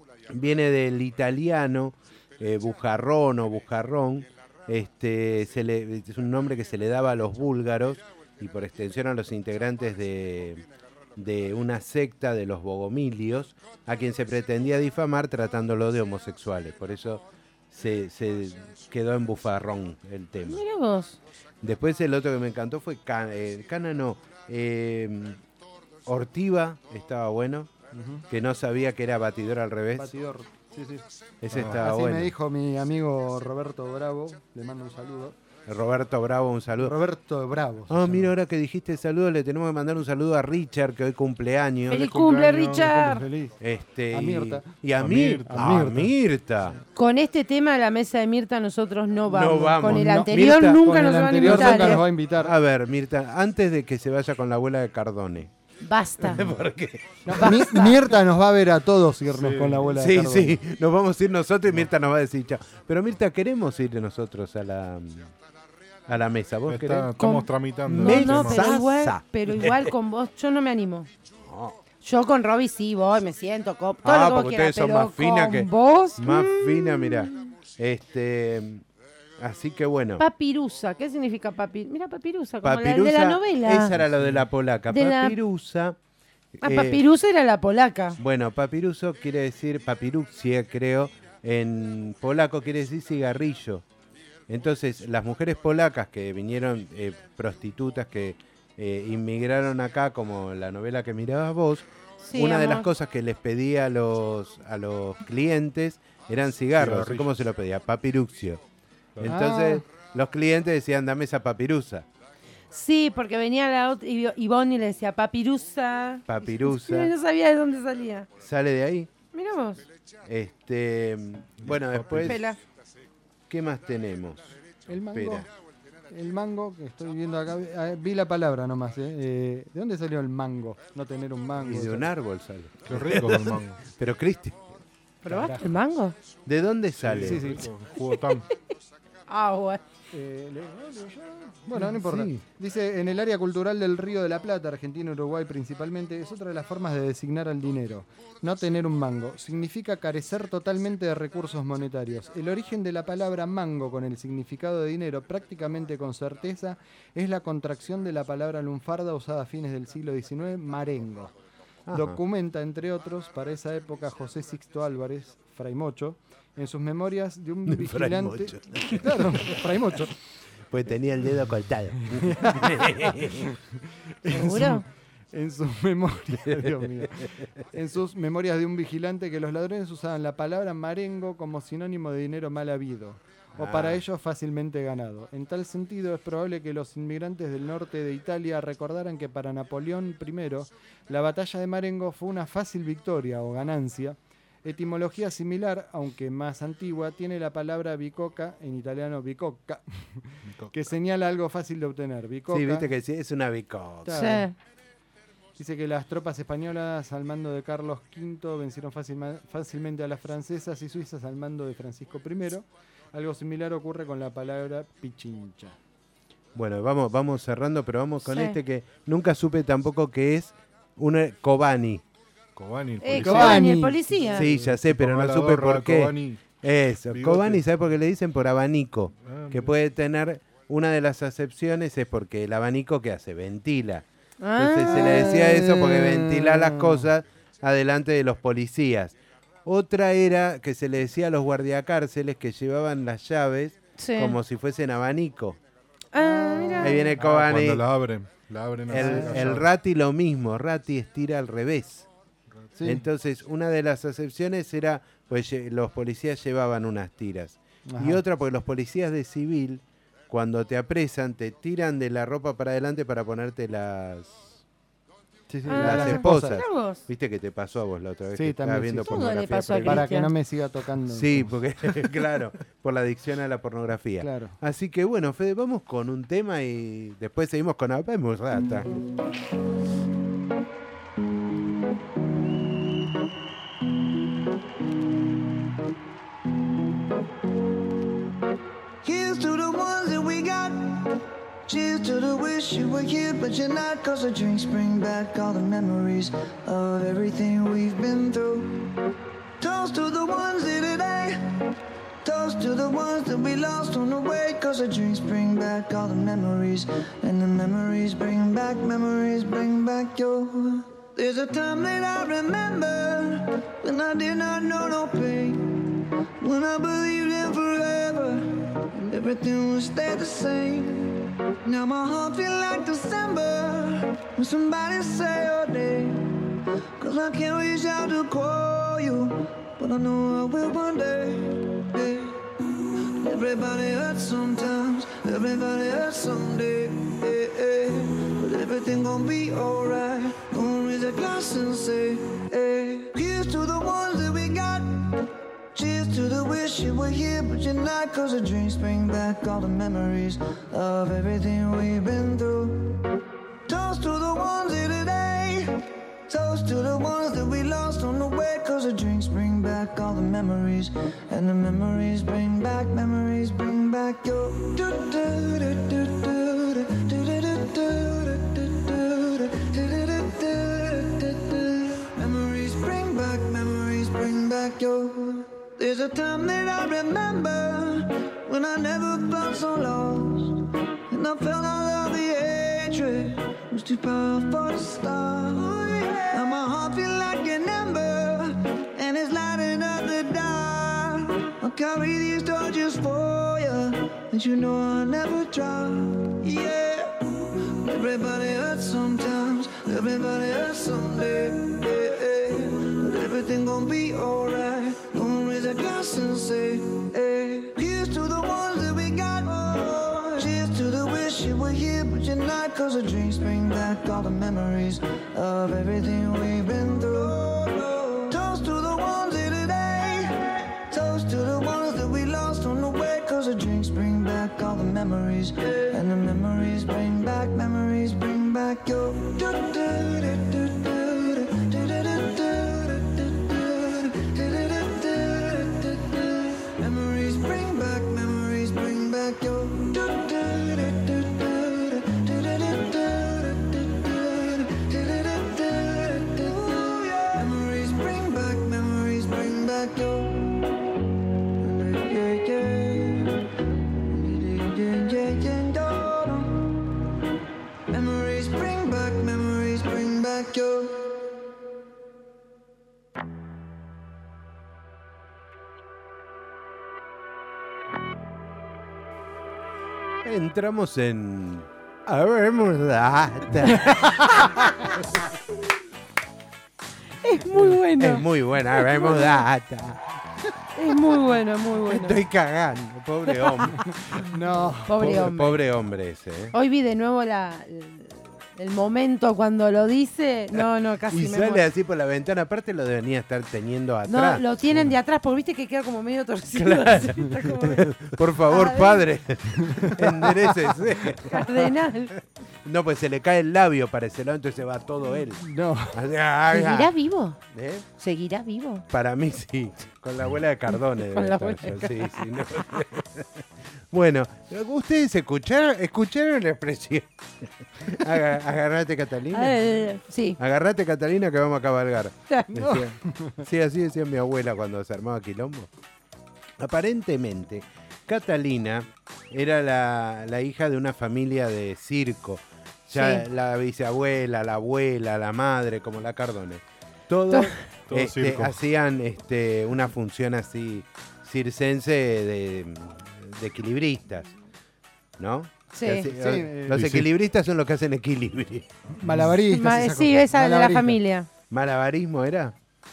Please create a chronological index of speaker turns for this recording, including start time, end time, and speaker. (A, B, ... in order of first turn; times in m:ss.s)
0:00.3-0:10.6 A
0:11.2-0:20.6 A
0:20.5-0:21.2 B
0:21.6-0:25.4 A
0:26.0-0:27.7 A
0:27.9-0:28.2 C
0:28.3-0:30.1 A
0:30.0-0:31.1 C
0:31.4-0:32.3 A
0:31.5-0:31.8 D
0:31.6-0:35.4 C
0:35.7-0:36.9 A
0:36.8-0:38.3 C
0:37.9-0:42.1 A
0:41.9-0:43.2 B
0:42.0-0:43.1 D
0:42.9-0:43.6 C
0:43.6-0:46.8 A
0:44.1-0:44.7 C
0:45.0-0:45.9 D
0:45.5-0:46.1 C
0:47.0-0:52.0 B
0:49.3-0:50.8 A
0:49.9-0:52.5 C
0:51.4-0:55.5 A
0:55.8-0:56.5 B
0:56.2-0:57.5 A
0:57.2-1:00.6 C
0:57.4-0:57.9 B
0:59.3-0:59.9 D
1:00.0-1:05.3 A
1:06.1-1:07.1 A
1:06.7-1:08.8 D
1:07.2-1:11.1 B
1:07.9-1:09.9 A
1:11.5-1:11.8 A
1:12.0-1:17.5 B
1:14.0-1:18.8 A
1:19.4-1:20.2 A
1:20.2-1:23.9 B
1:22.6-1:26.0 A
1:24.0-1:24.4 D
1:24.9-1:25.4 B
1:26.6-1:27.0 A
1:26.6-1:28.2 B
1:28.2-1:33.8 A
1:34.5-1:48.6 A
1:42.2-1:42.9 B
1:46.8-1:47.3 D
1:49.2-1:52.0 A
1:49.2-1:49.8 C
1:52.7-1:58.3 B
1:56.3-1:57.1 A
1:58.4-1:59.1 A
1:59.3-1:59.8 B
2:00.2-2:02.4 A
2:01.6-2:02.4 D
2:02.2-2:02.6 B
2:03.5-2:04.6 A
2:04.9-2:05.5 C
2:05.1-2:05.5 A
2:06.1-2:12.1 C
2:11.6-2:14.6 A
2:12.8-2:13.8 D
2:15.2-2:16.1 B
2:15.2-2:15.7 C
2:16.4-2:17.4 A
2:17.0-2:18.4 D
2:17.2-2:17.7 C
2:19.3-2:19.8 B
2:20.1-2:41.3 C
2:41.9-2:42.2 A
2:41.9-2:50.1 C
2:47.7-2:49.6 A
2:50.7-2:53.5 A
2:52.2-2:53.5 C
2:54.2-3:22.9 C
2:54.3-2:54.8 B
3:03.6-3:04.0 A
3:22.5-3:24.3 A
3:24.0-3:24.5 B
3:24.1-3:24.5 C
3:25.6-3:35.8 C
3:36.5-3:42.0 A
3:38.2-3:38.6 B
3:42.6-3:43.6 D
3:43.0-3:44.4 B
3:43.2-3:44.3 C
3:44.3-3:46.5 D
3:44.4-3:54.0 A
3:47.1-3:47.6 D
3:49.2-3:49.7 D
3:54.4-3:55.6 B
3:54.6-4:05.6 A
3:54.9-3:56.8 C
4:04.0-4:04.4 B
4:06.1-4:07.1 B
4:06.8-4:07.8 A
4:07.2-4:09.7 D
4:08.9-4:12.1 A
4:08.9-4:09.6 C
4:12.8-4:13.0 C
4:12.8-4:24.6 A
4:17.9-4:18.2 C
4:25.5-4:26.6 C
4:25.6-4:27.0 B
4:25.8-4:30.1 A
4:28.3-4:29.2 C
4:29.0-4:30.3 B
4:29.8-4:31.6 C
4:31.1-4:39.0 A
4:34.2-4:34.5 C
4:49.0-4:58.9 E
4:59.6-5:01.4 E
5:02.2-5:26.4 E
5:27.0-5:32.4 E
5:33.0-5:53.0 E
5:53.7-5:55.7 E
5:56.3-7:30.7 E
7:31.6-7:33.4 E
7:34.1-7:36.7 E
7:37.9-7:41.2 E
7:50.2-7:55.2 A
7:53.7-7:54.0 B
7:57.2-7:59.3 B
7:58.0-8:00.2 A
8:00.8-8:02.2 B
8:01.9-8:04.3 A
8:03.7-8:05.2 C
8:04.9-8:05.6 B
8:05.0-8:06.5 A
8:06.5-8:11.6 B
8:11.1-8:14.6 A
8:14.0-8:17.8 B
8:16.5-8:21.6 A
8:18.5-8:19.0 B
8:19.6-8:20.7 C
8:21.2-8:22.1 B
8:22.6-8:26.9 A
8:25.4-8:25.9 C
8:26.5-8:27.4 B
8:27.5-8:27.8 A
8:28.0-8:28.8 B
8:28.9-8:33.3 A
8:30.7-8:32.2 B
8:33.9-8:37.1 A
8:37.8-8:39.6 A
8:39.3-8:40.4 B
8:40.4-8:45.7 A
8:42.5-8:43.4 C
8:46.6-9:04.3 A
8:52.9-8:53.2 B
8:57.9-8:58.5 D
9:05.2-9:08.7 A
9:05.7-9:06.1 B
9:06.1-9:06.7 C
9:06.7-9:07.1 D
9:09.0-9:11.0 C
9:09.0-9:09.3 D
9:09.5-9:11.3 B
9:11.5-9:12.5 A